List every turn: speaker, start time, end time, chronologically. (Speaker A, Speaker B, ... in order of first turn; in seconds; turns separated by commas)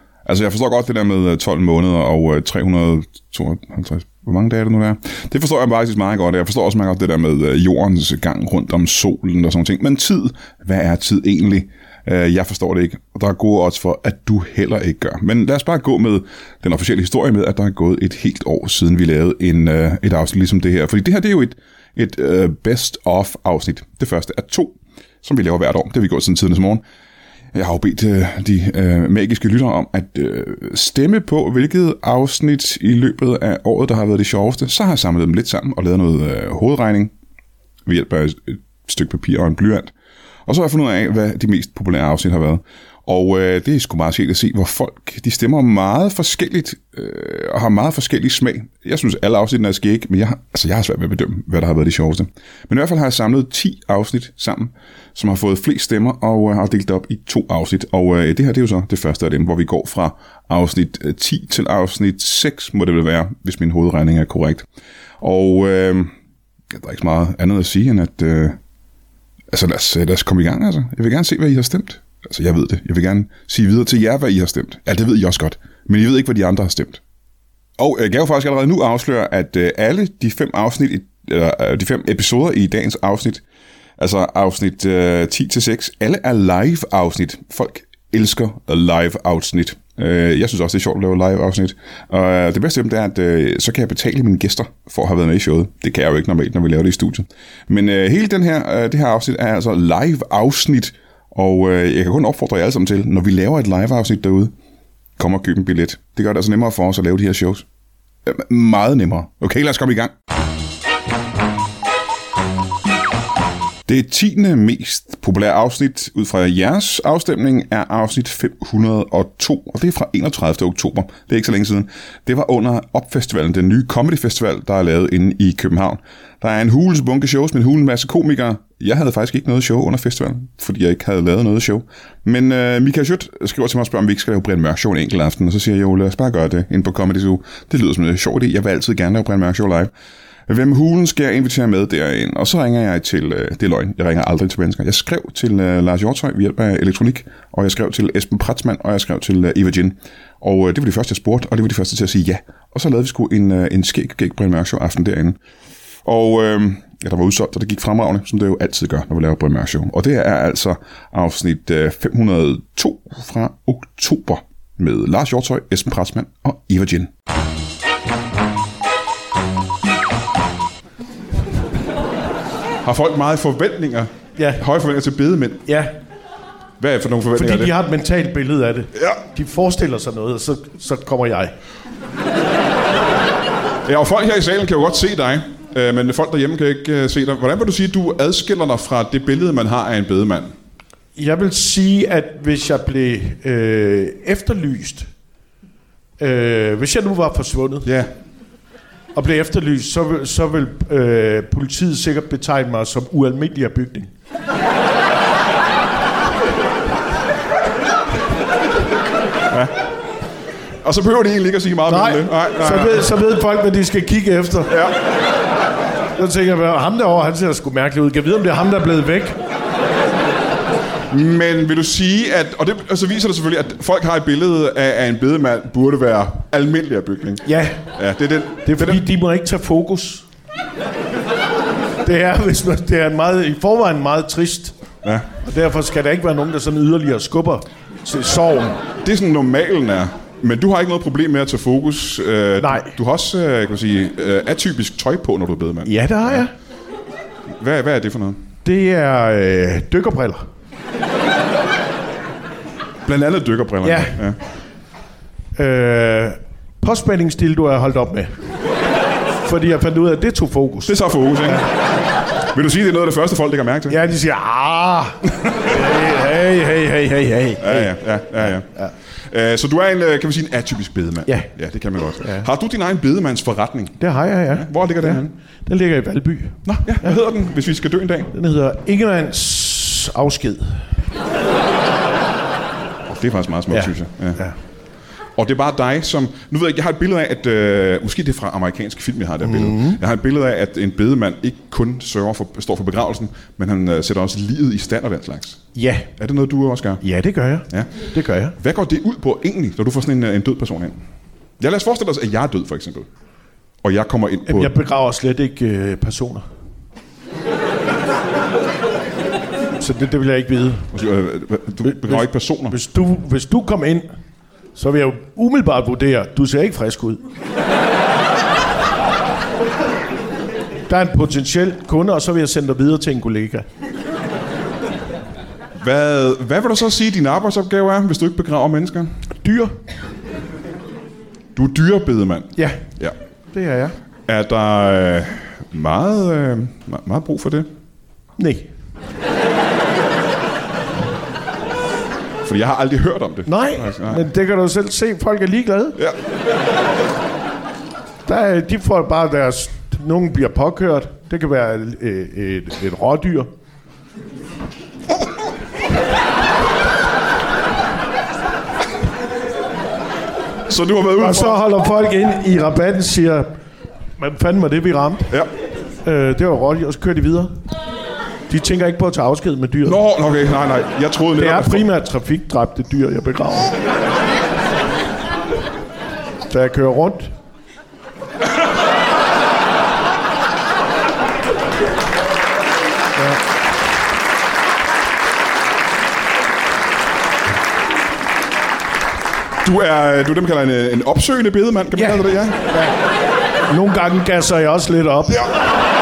Speaker A: 0.3-26.8, Speaker A: 27.5-37.1, Speaker A: 37.9-39.9, Speaker A: 40.5-64.7, Speaker A: 65.2-66.1, Speaker A: 66.7-68.6, Speaker A: 69.5-77.0, Speaker A: 77.8-83.4, Speaker A: 84.0-104.5, Speaker A: 105.2-107.7, Speaker A: 108.3-110.1, Speaker A: 113.9-139.9, Speaker A: 140.5-155.4, Speaker A: 156.1-167.1, Speaker A: 172.8-175.7, Speaker B: 175.7-175.9, Speaker A: 176.8-177.7, Speaker B: 177.3-181.5, Speaker A: 178.9-179.2, Speaker A: 183.8-190.5, Speaker B: 191.2-195.1, Speaker B: 196.2-197.9, Speaker A: 197.8-198.1, Speaker B: 199.2-204.1, Speaker A: 209.5-209.7, Speaker A: 210.8-213.1, Speaker B: 211.9-214.8, Speaker A: 214.7-215.0, Speaker B: 216.2-219.4, Speaker A: 221.1-229.0, Speaker B: 227.4-227.8, Speaker B: 228.7-230.2, Speaker B: 232.0-234.8, Speaker B: 235.4-238.8, Speaker A: 239.0-246.5, Speaker B: 242.6-242.9, Speaker B: 245.8-246.5, Speaker A: 247.6-248.4, Speaker B: 248.7-250.4, Speaker A: 253.1-254.4, Speaker B: 253.8-254.4, Speaker B: 255.6-258.3, Speaker B: 259.4-260.9, Speaker A: 260.9-261.7, Speaker A: 262.5-264.0, Speaker B: 263.9-268.9, Speaker A: 267.6-268.7, Speaker A: 269.3-274.0, Speaker B: 272.2-272.5, Speaker B: 274.0-277.2, Speaker A: 274.5-275.3, Speaker A: 276.7-278.3, Speaker B: 278.3-280.8, Speaker A: 283.1-284.4, Speaker B: 283.7-284.6, Speaker A: 285.4-295.6, Speaker B: 289.4-290.0, Speaker B: 295.8-296.1, Speaker A: 296.2-297.0, Speaker B: 297.0-298.6, Speaker A: 297.7-298.1, Speaker A: 298.6-301.0, Speaker A: 301.6-303.1, Speaker A: 303.8-304.8, Speaker B: 304.5-306.4, Speaker B: 309.8-310.9, Speaker A: 310.9-312.8, Speaker B: 311.9-314.1, Speaker B: 314.8-317.2, Speaker B: 320.9-323.6, Speaker A: 325.8-329.1, Speaker B: 329.4-329.8, Speaker A: 331.6-333.1, Speaker B: 332.6-332.8, Speaker B: 333.5-334.0, Speaker A: 334.3-337.7, Speaker B: 338.4-338.7, Speaker A: 342.4-344.2, Speaker B: 343.5-346.0, Speaker B: 348.2-353.5, Speaker A: 360.7-361.6, Speaker B: 361.2-363.5, Speaker B: 364.2-365.4, Speaker B: 366.0-367.5, Speaker B: 368.5-370.0, Speaker A: 369.9-371.9, Speaker B: 371.4-373.8, Speaker B: 376.5-377.3, Speaker A: 389.6-392.7, Speaker B: 391.9-392.9, Speaker B: 393.7-395.5